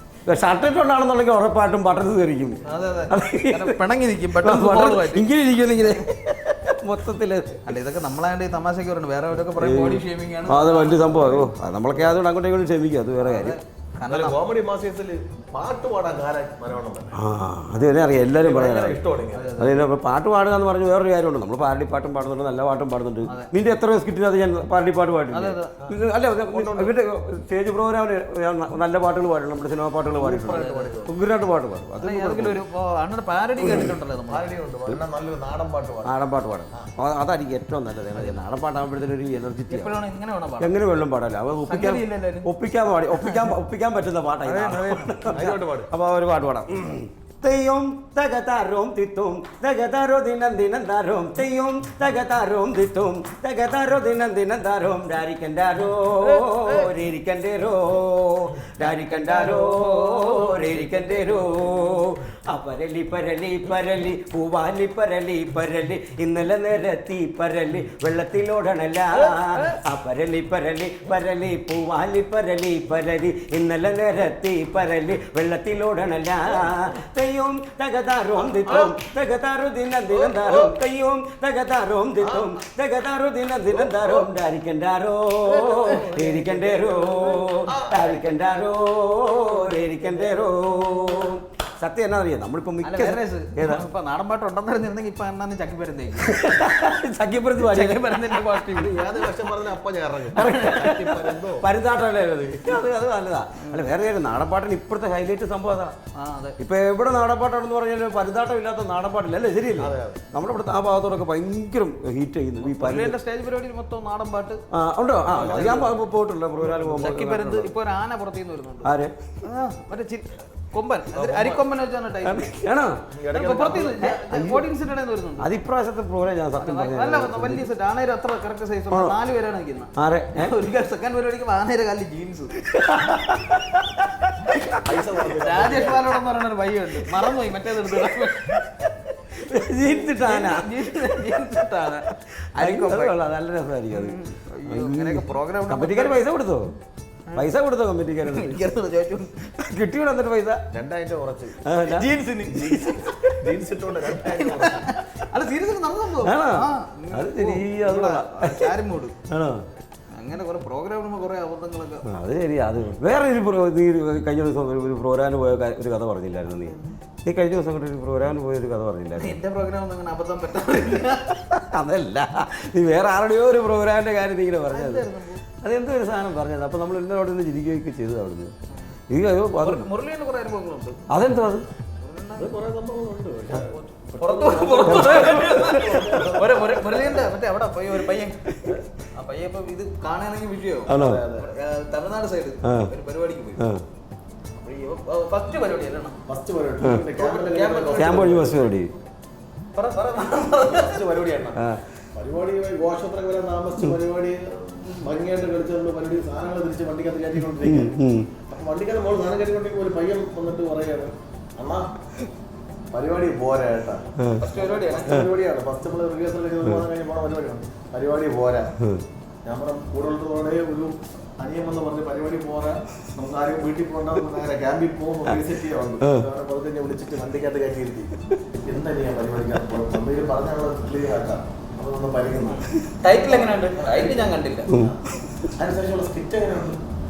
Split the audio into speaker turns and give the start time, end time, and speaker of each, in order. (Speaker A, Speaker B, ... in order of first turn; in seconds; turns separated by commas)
Speaker A: 0.2-3.8, Speaker B: 2.6-6.0, Speaker A: 4.4-7.7, Speaker B: 7.7-11.4, Speaker A: 9.5-13.6, Speaker B: 13.2-14.4, Speaker C: 14.1-17.1, Speaker A: 17.1-19.0, Speaker C: 18.4-19.6, Speaker B: 19.3-19.9, Speaker A: 19.6-32.6, Speaker B: 23.2-23.5, Speaker B: 25.3-25.9, Speaker C: 26.5-26.9, Speaker C: 30.1-31.1, Speaker B: 30.5-30.9, Speaker B: 32.0-34.5, Speaker C: 34.3-36.1, Speaker A: 36.0-39.9, Speaker B: 39.7-40.7, Speaker A: 40.6-93.8, Speaker B: 41.6-42.5, Speaker B: 43.1-43.5, Speaker C: 44.4-45.9, Speaker B: 44.6-45.0, Speaker B: 56.2-56.9, Speaker B: 59.2-61.0, Speaker B: 69.1-69.8, Speaker C: 78.7-78.9, Speaker C: 80.2-80.7, Speaker C: 82.2-82.5, Speaker C: 83.8-84.3, Speaker B: 85.6-86.1, Speaker C: 85.8-88.2, Speaker B: 92.8-96.6, Speaker A: 96.2-98.4, Speaker B: 97.6-99.3, Speaker C: 98.7-101.7, Speaker B: 100.3-100.9, Speaker A: 100.3-105.9, Speaker B: 103.6-103.9, Speaker B: 106.1-106.6, Speaker A: 106.6-113.2, Speaker C: 109.8-110.2, Speaker B: 112.6-114.6, Speaker A: 114.7-117.7, Speaker C: 115.3-115.9, Speaker B: 115.3-116.0, Speaker B: 116.8-118.9, Speaker A: 118.8-119.1, Speaker B: 119.4-122.5, Speaker C: 121.1-121.6, Speaker A: 122.2-123.0, Speaker C: 123.1-124.0, Speaker B: 123.3-125.5, Speaker A: 123.8-124.7, Speaker A: 125.4-127.7, Speaker B: 126.6-132.6, Speaker A: 128.9-129.2, Speaker A: 129.9-130.5, Speaker A: 132.6-134.5, Speaker B: 134.5-138.7, Speaker C: 134.8-136.1, Speaker A: 138.6-141.5, Speaker B: 139.9-143.2, Speaker A: 142.6-146.7, Speaker B: 143.9-146.2, Speaker A: 147.3-148.6, Speaker B: 148.2-149.5, Speaker A: 149.4-150.6, Speaker C: 150.7-151.6, Speaker A: 151.6-153.3, Speaker B: 151.8-153.2, Speaker C: 153.3-154.9, Speaker B: 154.1-159.1, Speaker A: 156.2-158.7, Speaker A: 159.3-159.6, Speaker B: 160.1-162.0, Speaker A: 162.1-169.4, Speaker B: 166.7-166.9, Speaker B: 169.2-171.4, Speaker A: 171.5-175.1, Speaker B: 174.7-175.4, Speaker A: 175.6-178.5, Speaker A: 179.1-179.9, Speaker B: 179.6-181.0, Speaker A: 181.1-181.7, Speaker B: 182.0-182.5, Speaker C: 182.4-187.3, Speaker B: 183.6-193.7, Speaker A: 184.8-186.2, Speaker A: 190.9-191.2, Speaker C: 190.9-191.5, Speaker A: 192.6-192.9, Speaker A: 193.6-193.8, Speaker B: 194.6-196.2, Speaker C: 196.3-198.5, Speaker A: 196.8-197.1, Speaker B: 197.2-198.3, Speaker A: 197.9-198.9, Speaker B: 199.7-201.0, Speaker C: 200.6-201.6, Speaker A: 201.5-201.8, Speaker C: 202.1-211.9, Speaker A: 207.6-208.3, Speaker C: 212.9-218.7, Speaker B: 214.4-215.3, Speaker A: 218.8-219.0, Speaker C: 219.4-232.7, Speaker A: 226.0-226.2, Speaker B: 233.0-234.7, Speaker C: 233.3-235.0, Speaker A: 234.7-235.0, Speaker C: 235.6-236.8